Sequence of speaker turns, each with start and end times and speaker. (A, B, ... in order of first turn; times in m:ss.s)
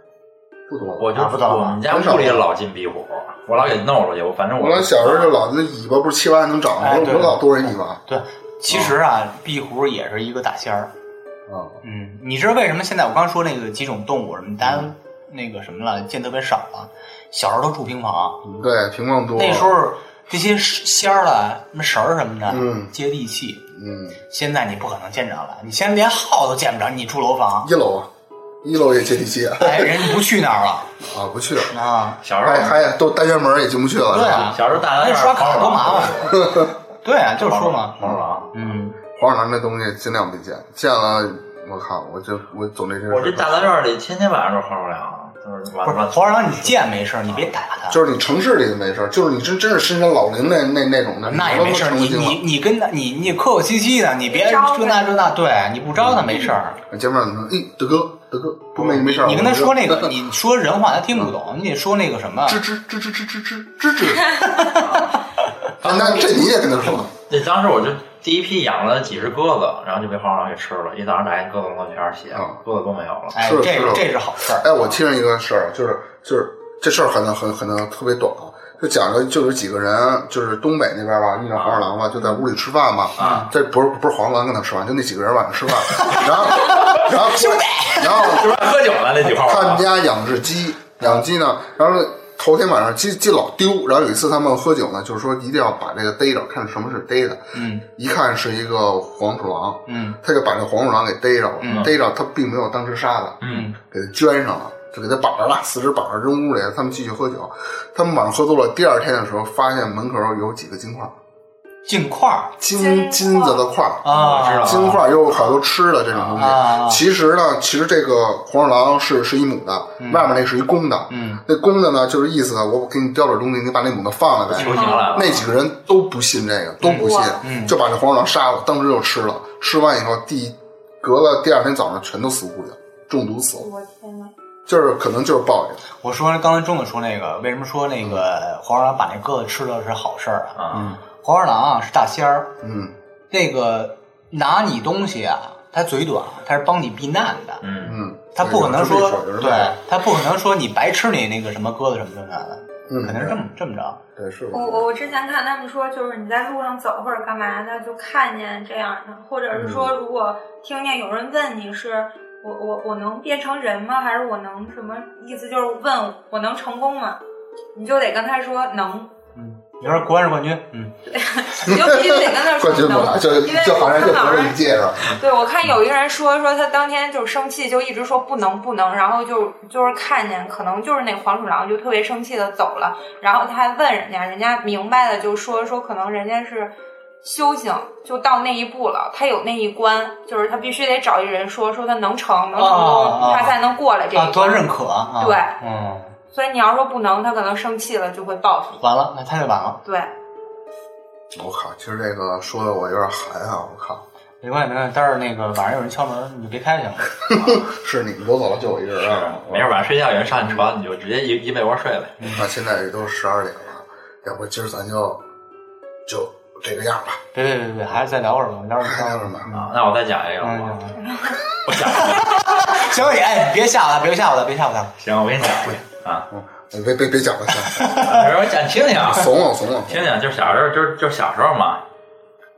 0:00.7-0:01.1 A
0:01.0-0:05.3 B
0:01.2-0:01.8 C
0:01.9-0:02.5 A
0:04.6-0:08.0 A
0:06.8-0:10.9 C
0:08.7-0:08.9 A
0:11.5-0:11.8 A
0:11.8-0:18.4 C
0:14.6-0:14.9 A
0:18.4-0:19.8 A
0:19.4-0:23.6 C
0:22.5-0:22.9 A
0:23.7-0:24.2 A
0:24.3-0:27.7 C
0:27.6-0:28.1 A
0:28.6-0:30.2 A
0:29.6-0:30.9 C
0:31.0-0:31.8 A
0:31.7-0:32.2 C
0:32.2-0:32.8 B
0:32.4-0:34.8 A
0:34.1-0:38.0 C
0:34.2-0:36.6 B
0:36.3-0:36.7 A
0:37.4-0:38.5 B
0:38.5-0:39.0 C
0:39.0-0:43.8 A
0:43.1-0:47.5 B
0:45.8-0:48.0 C
0:47.9-0:52.4 A
0:51.2-0:56.8 C
0:54.2-0:55.3 D
0:55.9-1:00.2 A
0:58.8-1:02.6 C
1:02.5-1:04.4 A
1:04.4-1:05.1 C
1:04.7-1:05.2 B
1:05.8-1:13.4 B
1:05.8-1:07.1 A
1:12.3-1:12.6 A
1:13.3-1:14.7 C
1:13.4-1:28.7 A
1:21.5-1:21.9 B
1:23.2-1:23.5 B
1:23.2-1:23.5 C
1:26.1-1:27.0 B
1:27.4-1:28.0 C
1:27.9-1:29.8 B
1:29.2-1:51.1 A
1:31.0-1:31.2 C
1:37.5-1:37.8 C
1:39.9-1:40.2 C
1:41.6-1:41.9 C
1:43.4-1:43.7 B
1:43.4-1:43.8 C
1:51.8-1:52.6 C
1:52.6-2:13.7 A
1:52.7-1:53.6 D
1:54.0-1:55.0 C
1:54.1-1:56.4 B
1:56.4-1:57.0 C
2:00.0-2:00.3 C
2:01.1-2:01.4 C
2:04.5-2:05.5 B
2:04.5-2:04.9 C
2:04.8-2:05.3 D
2:06.8-2:07.8 C
2:06.9-2:07.4 D
2:13.6-2:14.3 D
2:14.7-2:15.8 A
2:16.0-2:20.6 C
2:20.6-2:20.9 B
2:20.7-2:21.0 A
2:21.1-2:22.5 C
2:22.6-2:22.9 A
2:23.3-2:27.6 C
2:27.6-2:28.0 B
2:27.8-2:29.8 A
2:28.3-2:34.0 C
2:32.9-2:33.4 A
2:34.2-2:34.9 A
2:34.5-2:47.2 D
2:39.5-2:39.9 A
2:47.7-2:49.1 D
2:49.3-2:50.9 C
2:51.1-3:15.6 D
2:51.6-2:55.1 A
3:12.5-3:13.6 C
3:14.1-3:16.2 C
3:16.3-3:18.8 D
3:18.8-3:19.8 C
3:19.8-3:20.1 D
3:21.3-3:24.0 A
3:24.4-3:27.1 C
3:27.3-3:29.8 A
3:29.0-3:32.3 B
3:32.3-3:35.2 A
3:36.0-3:37.2 A
3:37.3-3:39.7 C
3:38.8-3:39.5 A
3:39.5-3:41.0 B
3:40.4-3:41.0 C
3:41.0-3:41.4 D
3:41.6-3:42.9 B
3:41.8-3:44.9 C
3:45.0-3:46.3 B
3:46.3-3:48.0 A
3:47.7-3:48.3 C
3:47.9-3:49.4 B
3:49.0-3:50.1 A
3:49.9-3:51.8 B